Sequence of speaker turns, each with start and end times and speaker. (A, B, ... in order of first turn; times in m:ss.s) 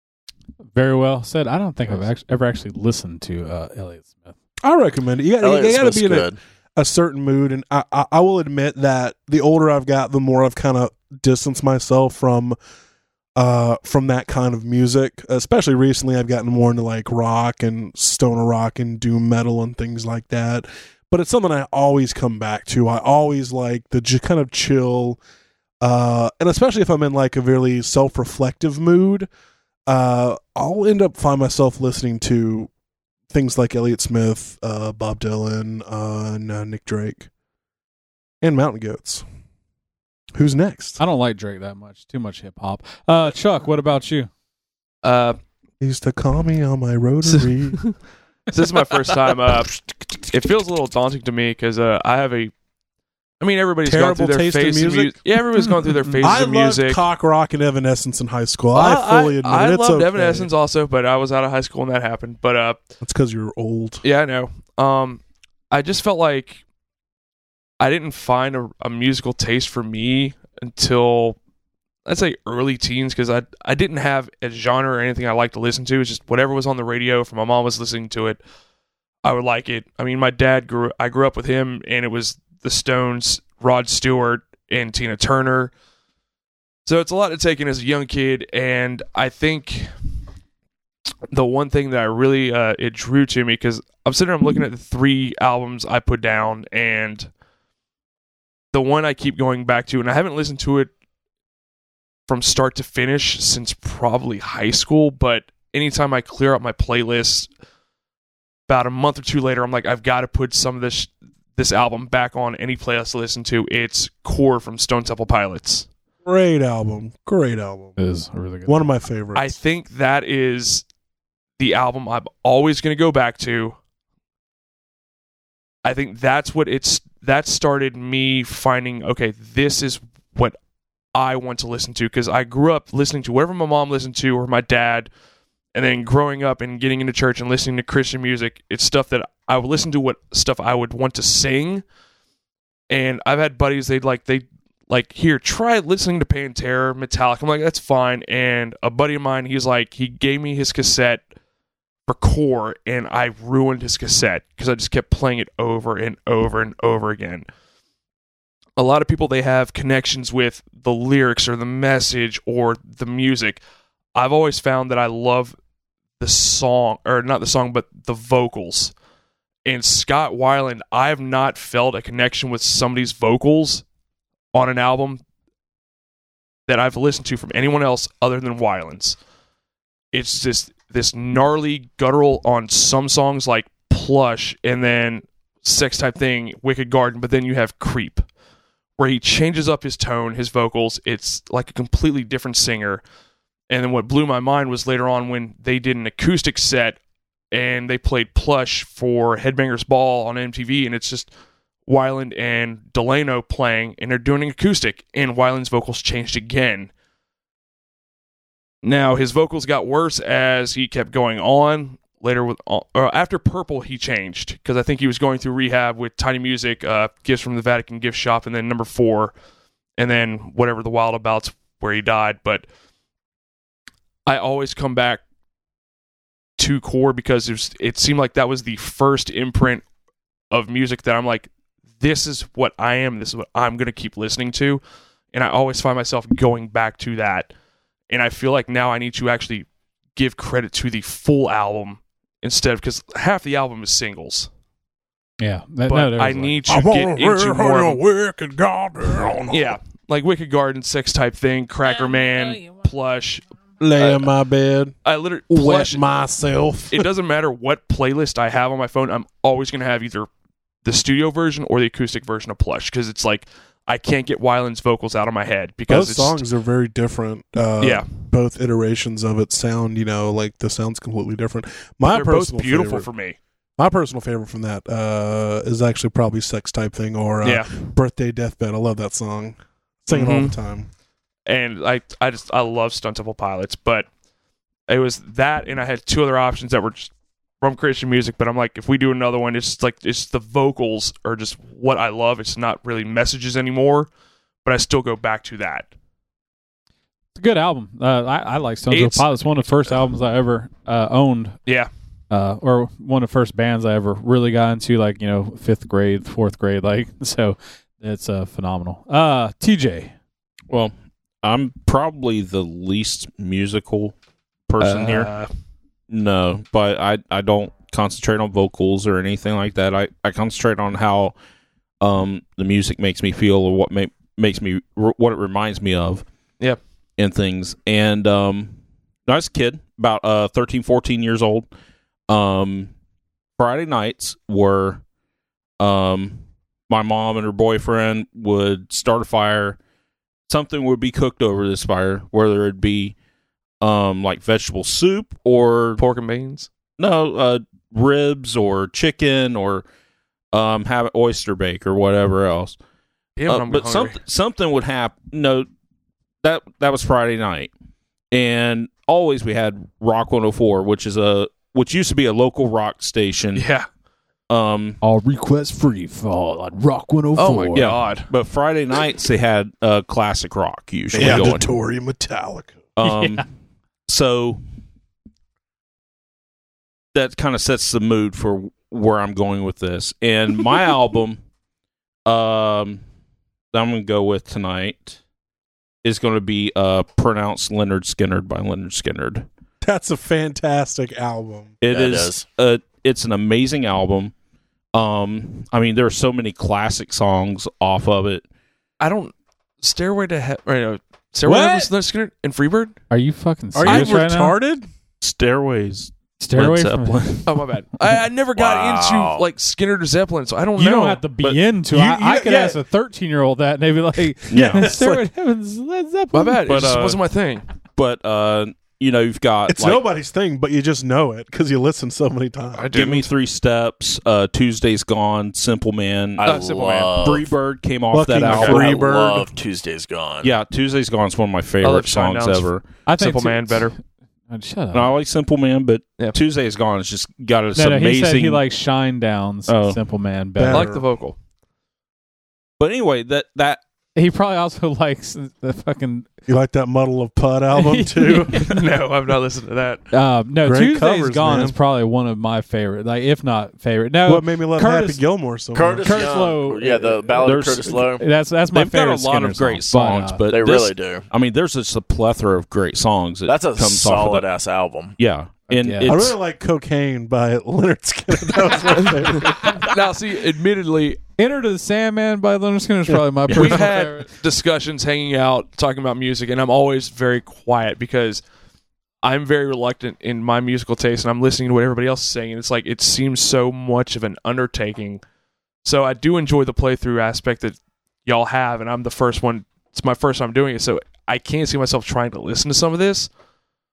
0:00.7-0:04.3 A
0:04.6-0:12.6 B
0:05.4-0:06.4 C
0:13.4-0:25.2 B
0:25.8-0:29.3 B
0:29.9-0:32.7 B
0:33.3-0:37.3 B
0:38.4-0:39.2 B
0:40.3-0:41.0 B
0:41.0-0:44.3 A
0:45.0-0:45.4 D
0:45.8-0:47.8 B
0:47.3-0:47.9 D
0:48.5-0:52.5 D
0:53.4-0:57.0 D
0:53.8-0:55.2 B
0:55.6-0:56.2 A
0:56.2-1:00.5 B
0:58.7-1:02.8 D
1:03.0-1:04.0 B
1:04.0-1:06.6 D
1:07.8-1:11.4 D
1:12.0-1:18.4 D
1:19.2-1:25.7 D
1:26.8-1:29.9 D
1:31.3-1:37.3 D
1:38.7-1:40.9 D
1:42.3-1:47.5 D
1:48.7-1:55.9 D
1:56.2-1:58.0 B
1:58.0-1:58.8 A
1:58.6-1:59.6 B
1:59.3-2:00.8 D
2:01.6-2:03.8 D
2:05.8-2:10.5 D
2:11.1-2:15.1 D
2:15.7-2:21.8 D
2:22.9-2:31.2 D
2:32.1-2:37.4 D
2:38.8-2:43.6 D
2:44.1-2:45.5 D
2:46.2-2:48.9 D
2:49.6-2:53.8 D
2:54.5-2:55.2 D
2:56.7-2:59.2 D
3:00.1-3:08.2 D
3:09.0-3:13.0 D
3:13.7-3:17.0 D
3:17.5-3:21.3 D
3:21.9-3:26.9 D
3:28.8-3:39.3 D
3:40.0-3:42.6 D
3:44.2-3:45.2 D
3:46.6-3:49.8 D
3:50.5-3:54.8 D
3:55.3-3:57.5 D
3:58.1-4:04.5 D
4:05.4-4:06.6 A
4:05.9-4:08.0 D
4:06.7-4:09.7 B
4:09.4-4:13.4 D
4:13.8-4:14.9 B
4:14.0-4:14.3 D
4:15.0-4:16.0 D
4:15.5-4:17.1 B
4:16.9-4:20.3 D
4:20.8-4:26.4 D
4:25.9-4:33.1 B
4:27.8-4:28.1 D
4:32.1-4:33.4 D
4:33.8-4:40.9 B
4:37.4-4:37.7 D
4:40.1-4:40.6 D
4:41.5-4:44.1 D
4:44.9-4:54.1 D
4:54.6-4:55.9 D
4:57.4-5:01.6 A
4:58.9-4:59.3 D
5:02.3-5:10.1 A
5:10.7-5:14.1 E
5:14.7-5:15.3 E
5:14.8-5:15.5 D
5:16.1-5:21.3 E
5:22.0-5:26.2 E
5:27.2-5:31.7 E
5:32.3-5:32.9 E
5:33.6-5:35.0 E
5:35.8-5:39.8 E
5:40.5-5:43.2 E
5:43.8-5:46.0 E
5:46.0-5:46.7 D
5:47.0-5:49.8 E
5:50.5-5:52.8 E
5:53.4-5:54.2 D
5:53.5-5:55.7 E
5:56.4-5:57.7 E
5:58.3-6:03.7 E
6:03.5-6:03.9 D
6:04.5-6:05.0 E
6:05.0-6:07.9 A
6:07.4-6:08.3 D
6:07.7-6:11.7 E
6:11.1-6:12.8 B
6:11.2-6:11.5 A
6:13.0-6:13.4 E
6:13.0-6:13.4 A
6:14.1-6:14.6 E
6:17.1-6:21.4 E
6:22.2-6:23.0 E
6:23.7-6:25.2 E
6:26.0-6:29.5 E
6:29.8-6:31.7 B
6:31.8-6:34.3 E
6:31.9-6:32.5 C
6:34.9-6:38.4 E
6:39.0-6:42.9 D
6:41.4-6:41.9 B
6:43.1-6:44.6 A
6:43.7-6:44.9 B
6:43.8-6:44.1 E
6:45.2-6:47.5 E
6:46.4-6:47.4 A
6:47.4-6:51.2 D
6:48.6-6:49.5 C
6:50.8-6:56.6 A
6:51.9-6:52.8 B
6:54.5-6:54.9 E
6:54.5-6:55.3 B
6:56.3-6:57.6 D
6:56.6-6:57.2 E
6:58.0-7:00.0 E
6:59.7-7:02.9 B
7:02.7-7:03.3 D
7:02.9-7:06.4 E
7:06.4-7:07.5 C
7:06.4-7:07.2 D
7:07.2-7:09.0 E
7:08.1-7:09.5 B
7:08.4-7:10.5 C
7:10.4-7:12.8 E
7:11.8-7:13.9 D
7:13.0-7:13.9 A
7:14.5-7:15.1 A
7:14.9-7:18.6 E
7:17.7-7:20.9 A
7:19.7-7:20.0 E
7:20.6-7:21.0 B
7:20.7-7:21.3 D
7:22.8-7:23.8 E
7:24.2-7:26.3 A
7:26.5-7:28.7 B
7:27.7-7:28.6 A
7:28.5-7:30.0 D
7:30.1-7:35.2 A
7:30.6-7:31.8 B
7:34.3-7:36.4 B
7:35.7-7:38.2 C
7:36.0-7:40.4 A
7:37.4-7:37.9 E
7:38.7-7:44.4 E
7:40.5-7:41.3 C
7:43.5-7:45.2 C
7:45.2-7:46.3 E
7:45.7-7:46.3 A
7:46.0-7:49.9 B
7:49.2-7:51.2 D
7:51.4-7:54.3 A
7:53.5-7:53.8 E
7:53.5-7:58.4 D
7:59.2-8:05.2 D
8:05.8-8:13.3 D